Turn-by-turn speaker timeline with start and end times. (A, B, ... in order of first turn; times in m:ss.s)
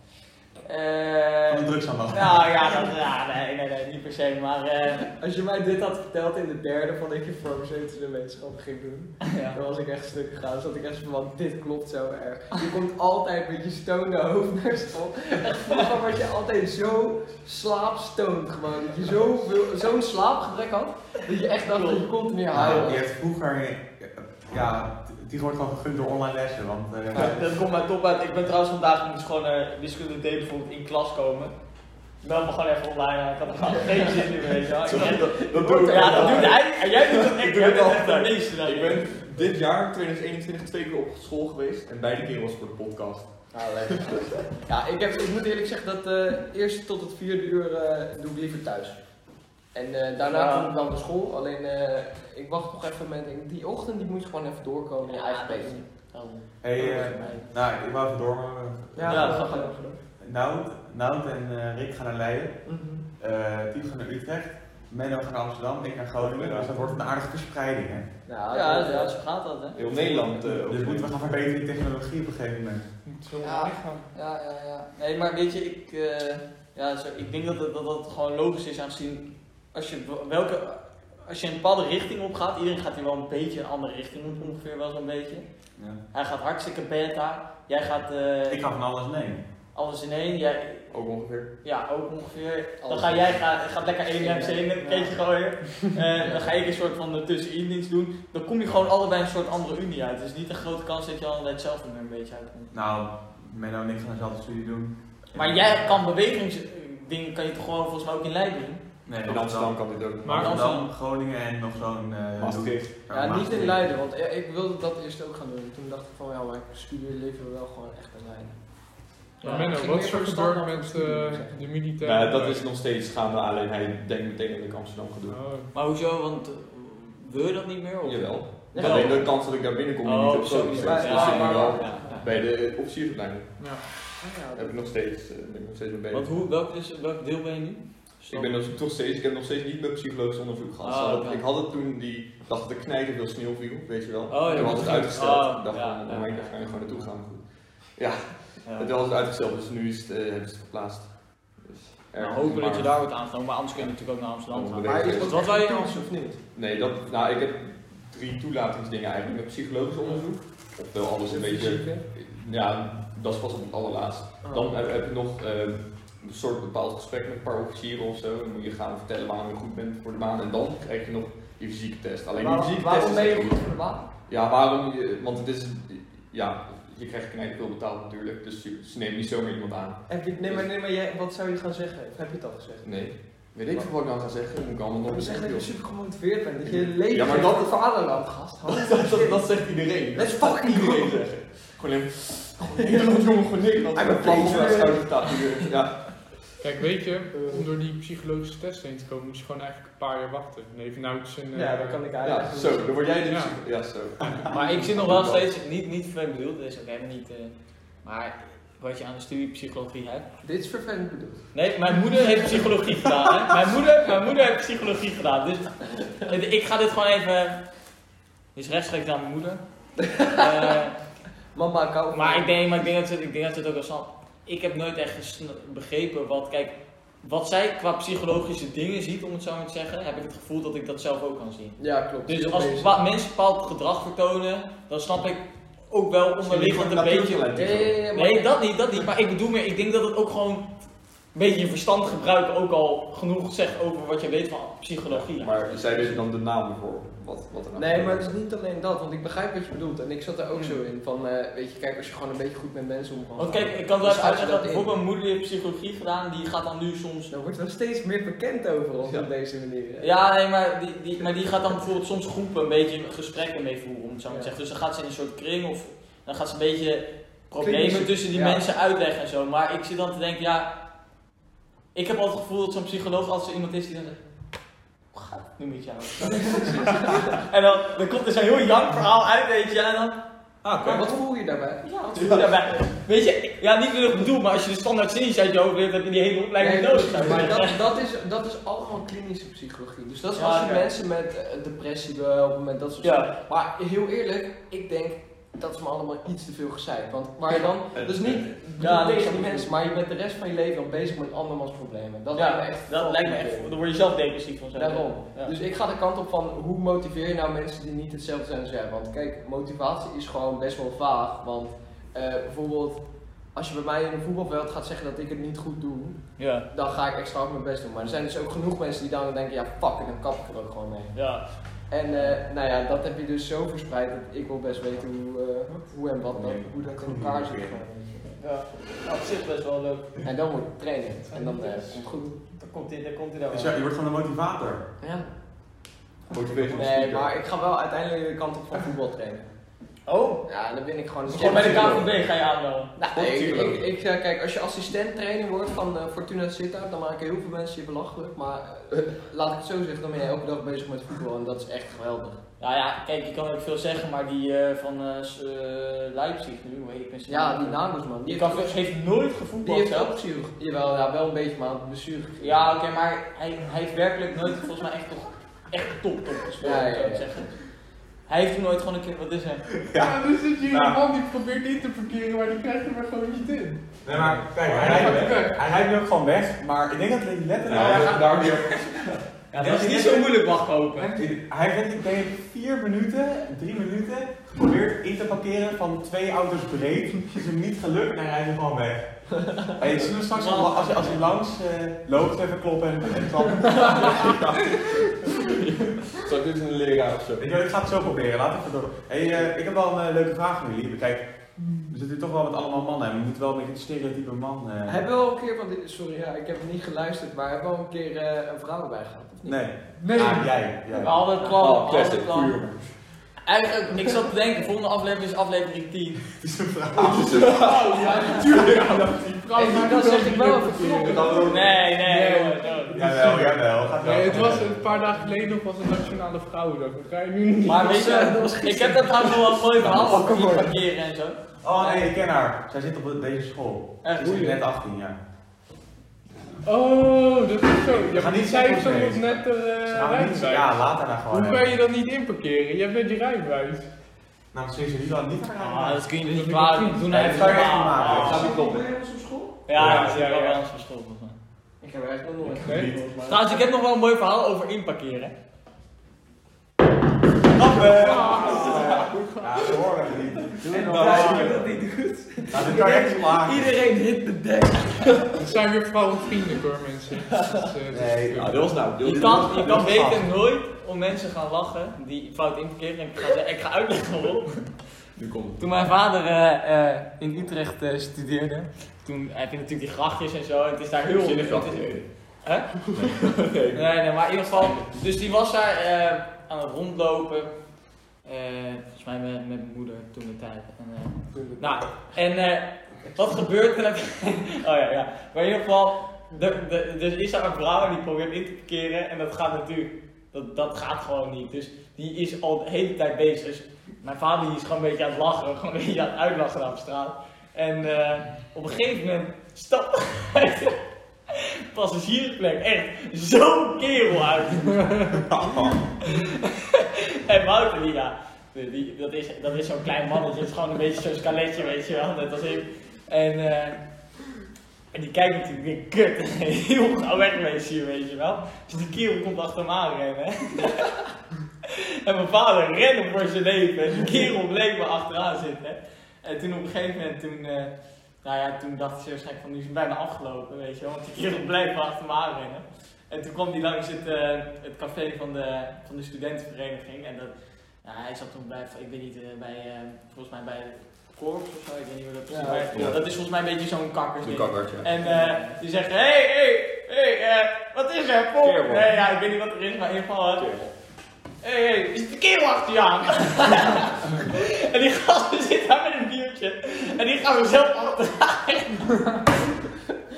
0:00.6-0:05.1 A
0:01.5-0:02.5 B
0:05.2-0:23.0 C
0:09.2-0:09.6 A
0:21.6-0:22.9 A
0:22.5-0:27.4 B
0:27.1-0:31.6 A
0:32.2-0:39.1 A
0:34.8-0:44.2 D
0:35.3-0:36.6 C
0:43.5-0:49.1 C
0:49.7-0:55.8 C
0:50.2-0:50.7 A
0:55.0-0:57.5 A
0:56.6-0:59.5 B
0:59.0-1:00.0 C
0:59.1-0:59.8 A
1:00.2-1:02.6 B
1:02.7-1:03.0 C
1:03.2-1:08.1 B
1:06.2-1:06.9 D
1:08.3-1:09.2 C
1:08.5-1:10.5 A
1:09.8-1:11.2 D
1:10.7-1:12.8 B
1:13.0-1:14.0 E
1:13.4-1:25.4 A
1:25.8-1:26.0 B
1:26.1-1:28.6 A
1:28.5-1:29.4 B
1:29.7-1:30.9 A
1:30.9-1:31.5 D
1:31.6-1:42.7 A
1:32.8-1:33.4 C
1:34.2-1:35.2 C
1:36.2-1:36.5 C
1:42.7-1:46.0 B
1:45.3-1:48.8 A
1:49.1-1:53.9 B
1:49.2-1:50.5 D
1:50.2-1:50.6 E
1:50.3-1:50.9 A
1:52.4-1:53.0 D
1:53.1-1:58.6 C
1:59.4-1:59.8 A
1:59.4-2:02.6 E
1:59.5-2:01.7 C
2:02.0-2:05.4 D
2:05.3-2:05.7 E
2:05.7-2:09.4 A
2:08.0-2:16.5 D
2:08.7-2:09.3 C
2:10.0-2:12.3 A
2:10.6-2:12.3 C
2:13.6-2:13.8 E
2:14.2-2:14.9 C
2:16.1-2:18.8 A
2:18.3-2:33.0 D
2:20.8-2:21.5 A
2:24.3-2:27.1 A
2:24.5-2:25.0 C
2:28.6-2:28.9 A
2:32.2-2:36.0 A
2:34.5-2:35.5 D
2:34.8-2:36.4 C
2:36.5-2:53.7 D
2:41.2-2:42.0 C
2:44.4-2:44.8 C
2:52.3-2:54.1 C
2:54.3-3:00.7 D
3:00.1-3:03.0 C
3:02.8-3:05.7 D
3:05.1-3:11.2 C
3:06.6-3:07.9 D
3:08.7-3:16.6 D
3:12.8-3:13.0 C
3:13.9-3:15.6 C
3:16.6-3:22.0 E
3:17.3-3:17.7 C
3:21.5-3:23.2 C
3:22.2-3:25.5 D
3:23.2-3:23.6 E
3:24.5-3:30.3 A
3:30.4-3:31.4 C
3:31.5-3:37.6 A
3:38.6-3:39.6 A
3:40.0-3:40.8 C
3:40.2-3:41.0 A
3:41.5-3:42.5 C
3:42.1-3:57.5 A
3:51.8-3:53.0 C
3:56.4-3:58.0 D
3:57.6-3:58.6 C
3:58.1-4:00.7 A
4:01.3-4:05.6 A
4:05.1-4:08.3 D
4:07.8-4:14.9 C
4:10.5-4:10.8 A
4:13.4-4:17.3 A
4:17.3-4:20.1 C
4:20.0-4:30.7 A
4:27.6-4:28.6 C
4:31.9-4:34.2 A
4:35.1-4:40.2 A
4:36.4-4:37.2 C
4:40.6-4:41.2 B
4:40.8-4:42.5 C
4:41.9-4:47.8 A
4:42.2-4:42.4 D
4:46.6-5:03.7 C
4:50.4-4:50.9 A
4:53.0-4:53.3 A
4:57.9-4:58.6 D
4:58.8-4:59.7 A
5:02.3-5:05.6 A
5:04.8-5:13.0 C
5:13.5-5:16.2 C
5:16.4-5:16.7 A
5:16.7-5:21.1 C
5:21.1-5:21.5 A
5:21.9-5:28.3 C
5:26.3-5:27.8 B
5:28.4-5:30.2 A
5:30.2-5:32.4 C
5:31.3-5:33.8 A
5:33.5-5:34.8 B
5:35.0-5:35.3 C
5:36.3-5:37.3 D
5:36.7-5:39.5 C
5:40.1-5:40.4 A
5:40.5-5:42.0 C
5:41.3-5:42.1 D
5:41.3-5:42.9 A
5:43.0-5:52.4 C
5:43.1-5:43.9 D
5:52.6-6:00.2 A
5:57.3-5:58.8 C
5:59.6-6:02.7 C
6:02.4-6:07.6 A
6:06.6-6:07.3 C
6:08.3-6:09.6 A
6:09.7-6:11.0 B
6:10.0-6:15.6 E
6:14.0-6:18.6 B
6:14.7-6:15.3 D
6:17.6-6:19.2 D
6:17.7-6:19.0 A
6:19.5-6:21.2 A
6:19.5-6:20.4 B
6:21.0-6:34.4 B
6:30.3-6:31.3 A
6:34.0-6:37.5 D
6:37.4-6:45.0 B
6:41.6-6:41.9 E
6:44.9-6:49.6 C
6:49.4-6:51.2 B
6:50.0-6:50.5 E
6:50.9-6:52.6 A
6:51.6-6:53.0 D
6:53.4-6:56.2 A
6:56.3-6:57.5 B
6:57.0-6:58.0 D
6:57.3-7:07.9 E
6:58.7-6:59.0 D
6:59.6-7:01.6 C
7:01.0-7:01.8 D
7:01.4-7:03.0 A
7:02.9-7:04.8 B
7:07.6-7:10.7 C
7:07.6-7:12.1 A
7:11.6-7:15.2 B
7:14.0-7:14.6 A
7:14.3-7:14.5 C
7:16.6-7:23.9 E
7:17.9-7:21.7 B
7:24.5-7:26.0 B
7:25.6-7:28.5 A
7:26.3-7:27.3 E
7:27.1-7:28.5 B
7:27.9-7:28.9 D
7:28.0-7:29.6 C
7:29.7-7:31.4 A
7:29.7-7:30.6 E
7:31.8-7:33.6 C
7:32.4-7:33.0 D
7:32.5-7:32.9 E
7:33.2-7:35.3 A
7:37.5-7:41.4 B
7:37.8-7:39.5 E
7:38.5-7:39.0 A
7:38.5-7:38.9 C
7:38.7-7:39.1 D
7:40.6-7:41.8 D
7:40.6-7:45.4 C
7:41.0-7:41.5 A
7:42.5-7:43.7 B
7:45.3-7:48.8 E
7:47.9-7:50.3 B
7:48.4-7:50.0 D
7:49.0-7:54.9 A
7:55.2-7:55.6 D
7:55.6-8:03.2 A
8:01.1-8:02.1 D
8:02.9-8:04.9 D
8:03.7-8:07.5 A
8:08.2-8:30.8 A
8:11.3-8:11.8 C
8:31.3-8:35.2 A
8:35.3-8:35.8 B
8:36.0-8:43.8 A
8:44.9-8:51.0 A
8:51.7-9:20.5 A
9:12.3-9:12.9 C
9:12.7-9:13.1 D
9:14.2-9:15.1 D
9:18.4-9:18.9 D
9:20.4-9:20.7 D
9:21.4-9:29.2 A